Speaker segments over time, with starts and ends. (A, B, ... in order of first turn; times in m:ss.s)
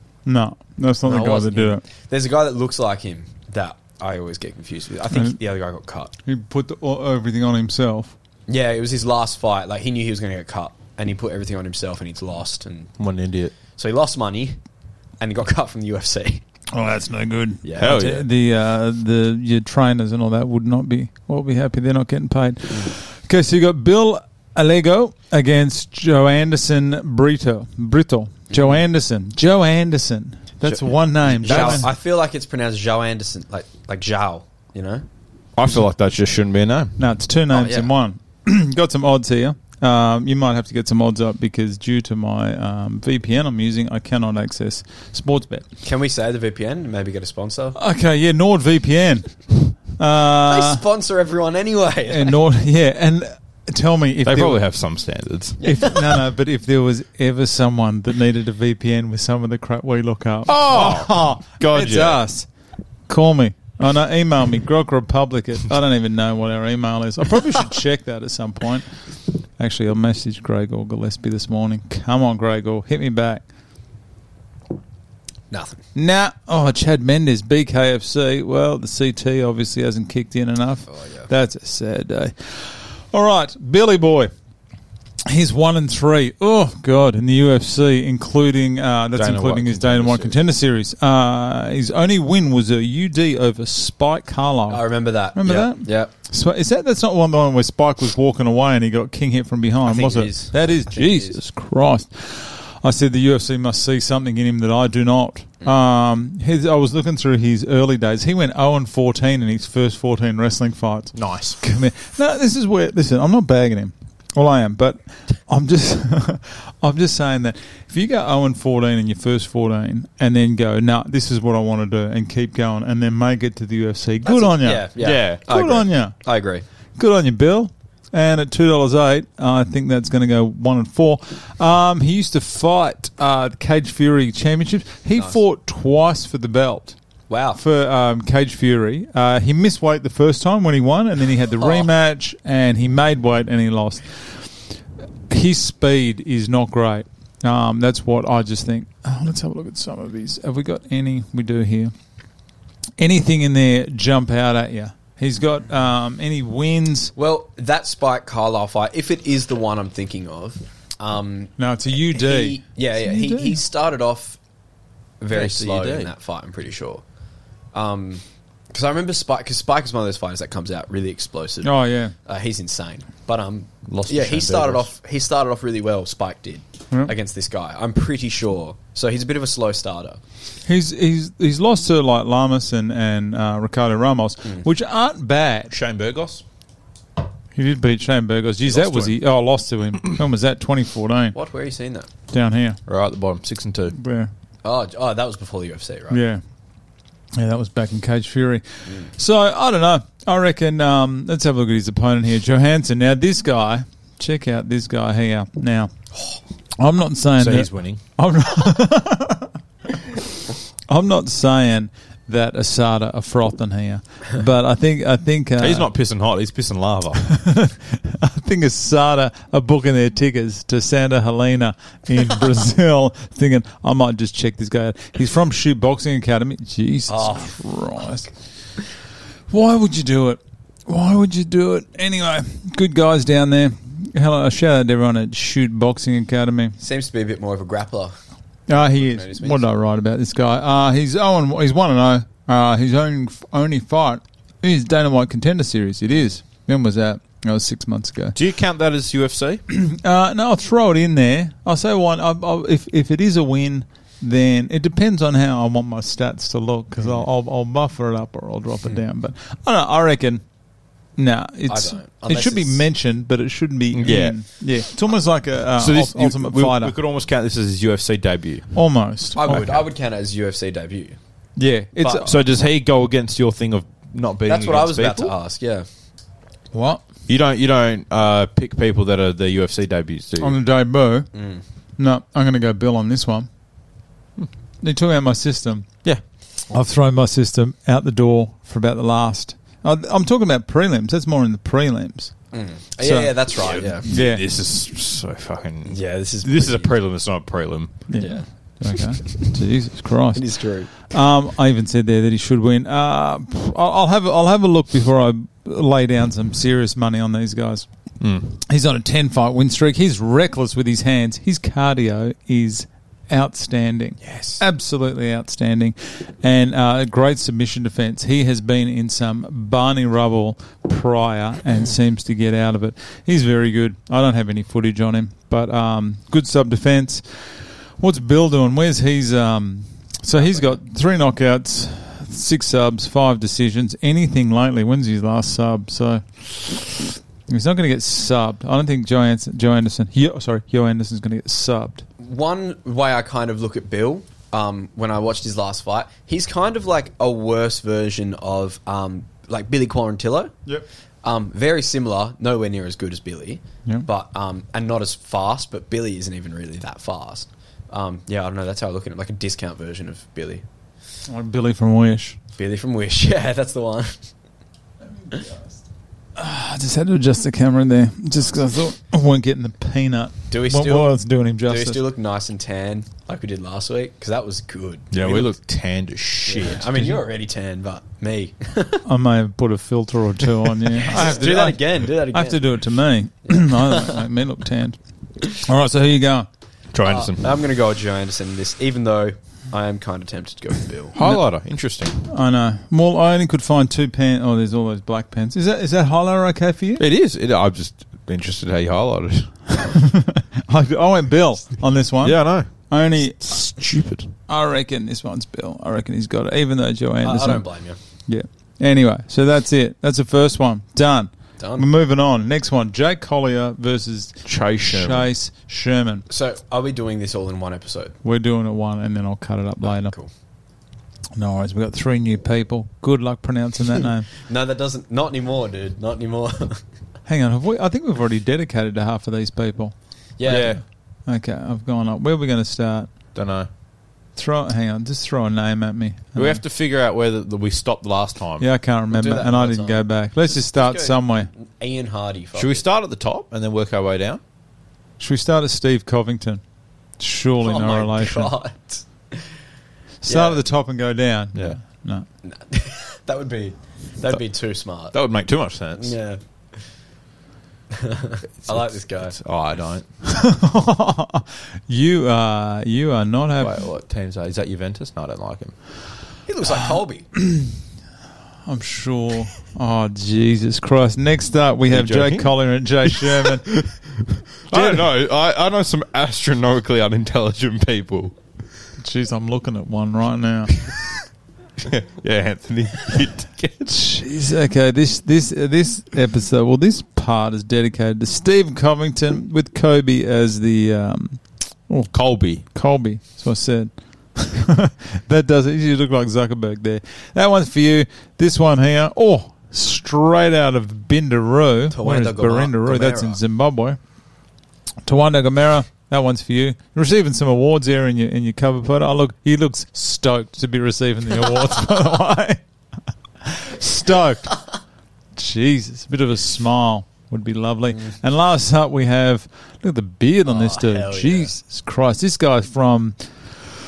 0:00.2-0:01.8 A
0:01.0-0:06.1 B
0:05.1-0:05.4 A
0:06.2-0:08.1 A
0:08.5-0:12.9 B
0:13.0-0:13.5 C
0:13.8-0:14.6 B
0:15.2-0:16.4 B
0:16.7-0:31.9 A
0:17.6-0:18.1 B
0:17.8-0:18.3 C
0:28.5-0:28.8 B
0:30.6-0:35.0 B
0:31.4-0:31.9 C
0:35.6-0:37.0 C
0:37.0-0:45.6 A
0:37.5-0:37.9 B
0:45.8-0:47.8 B
0:47.7-0:50.8 A
0:50.2-0:52.4 B
0:52.1-0:54.6 A
0:54.2-0:55.6 C
0:55.6-0:56.2 B
0:55.6-1:02.5 A
1:00.5-1:02.2 C
1:03.1-1:08.9 A
1:09.6-1:13.4 A
1:15.5-1:15.8 B
1:15.9-1:24.3 A
1:20.9-1:21.3 B
1:25.2-2:04.9 A
1:29.1-1:30.4 C
1:34.7-1:36.1 B
1:39.9-1:41.4 B
1:51.1-1:51.6 C
2:04.2-2:06.6 B
2:05.0-2:05.4 C
2:05.5-2:06.1 A
2:07.0-2:17.0 A
2:17.3-2:17.6 B
2:17.5-2:24.4 A
2:21.6-2:21.9 B
2:25.3-2:31.9 A
2:33.0-2:37.1 A
2:37.2-2:44.4 B
2:41.6-2:43.6 A
2:45.2-2:47.0 B
2:45.3-2:46.1 C
2:47.7-3:00.2 B
2:51.6-2:52.1 A
2:53.9-2:54.9 C
3:00.6-3:05.7 A
3:05.7-3:06.4 C
3:07.5-3:11.3 A
3:08.6-3:09.2 C
3:11.3-3:12.1 B
3:12.3-3:12.8 A
3:12.9-3:13.9 C
3:13.9-3:14.3 A
3:14.6-3:16.2 B
3:16.1-3:16.4 A
3:17.3-3:25.9 A
3:26.8-3:29.5 A
3:27.4-3:28.0 C
3:30.9-3:35.9 A
3:35.6-3:37.2 C
3:37.2-3:48.3 A
3:47.1-3:48.1 B
3:49.5-3:56.8 A
3:56.8-3:58.2 B
3:58.7-4:08.4 A
3:58.8-3:59.6 B
4:08.3-4:09.6 C
4:09.7-4:20.4 A
4:21.2-4:26.9 A
4:21.7-4:22.8 B
4:23.9-4:24.4 C
4:25.8-4:28.7 C
4:28.7-4:29.8 A
4:29.4-4:31.2 B
4:29.5-4:29.8 C
4:31.6-4:32.3 A
4:32.0-4:32.3 B
4:32.2-4:35.3 C
4:34.5-4:35.9 B
4:36.7-4:37.0 A
4:37.3-4:40.6 C
4:40.4-4:41.3 A
4:41.3-4:41.6 B
4:42.0-4:43.5 A
4:44.8-4:45.9 A
4:46.7-4:52.3 A
4:52.5-4:54.1 B
4:53.0-4:53.4 A
4:53.6-4:58.0 C
4:54.0-4:54.4 A
4:55.8-4:56.9 B
4:58.1-5:00.5 A
4:58.2-4:59.2 B
5:00.3-5:00.9 B
5:01.0-5:07.9 A
5:08.2-5:08.5 C
5:08.6-5:27.2 A
5:28.0-5:42.0 A
5:42.2-5:50.5 B
5:51.2-6:00.6 B
6:01.3-6:02.4 A
6:02.6-6:04.2 B
6:06.4-6:12.0 A
6:10.5-6:15.5 B
6:15.1-6:17.2 C
6:16.4-6:19.0 B
6:19.0-6:25.0 A
6:20.9-6:22.6 B
6:23.5-6:24.2 B
6:25.5-6:26.5 A
6:26.9-6:27.6 C
6:27.0-6:31.2 B
6:31.1-6:32.2 C
6:32.2-6:37.0 A
6:37.0-6:39.5 C
6:39.7-6:43.6 A
6:42.2-6:42.7 C
6:43.4-6:44.3 C
6:44.5-6:47.6 A
6:47.2-6:48.0 B
6:48.3-6:56.2 A
6:51.6-6:51.8 B
6:54.4-6:55.3 C
6:56.3-6:58.2 B
6:58.2-7:00.1 A
6:59.8-7:00.3 B
7:01.4-7:04.3 A
7:04.4-7:06.8 B
7:07.3-7:09.9 A
7:10.4-7:10.8 B
7:10.4-7:10.8 C
7:10.5-7:10.8 A
7:11.3-7:13.1 A
7:13.3-7:13.7 C
7:14.4-7:16.6 A
7:16.4-7:18.6 C
7:18.6-7:21.5 A
7:19.1-7:22.8 B
7:22.5-7:24.4 C
7:25.2-7:26.6 A
7:27.2-7:28.5 A
7:27.6-7:29.4 B
7:30.2-7:32.2 A
7:30.2-7:30.6 B
7:32.4-7:35.2 B
7:35.1-7:36.2 C
7:36.0-7:36.4 B
7:37.9-7:39.4 B
7:38.6-7:40.0 C
7:40.2-7:43.7 A
7:43.6-7:45.7 C
7:46.5-7:47.3 B
7:46.6-7:47.8 A
7:48.6-7:53.7 A
7:51.9-7:52.5 C
7:53.0-7:58.3 C
7:54.7-7:55.1 A
7:59.0-8:00.8 A
8:01.8-8:04.0 C
8:03.9-8:24.0 A
8:12.1-8:12.6 C
8:21.9-8:23.4 B
8:25.0-8:32.6 A
8:33.4-8:34.6 A
8:35.4-8:43.2 A
8:40.4-8:41.5 B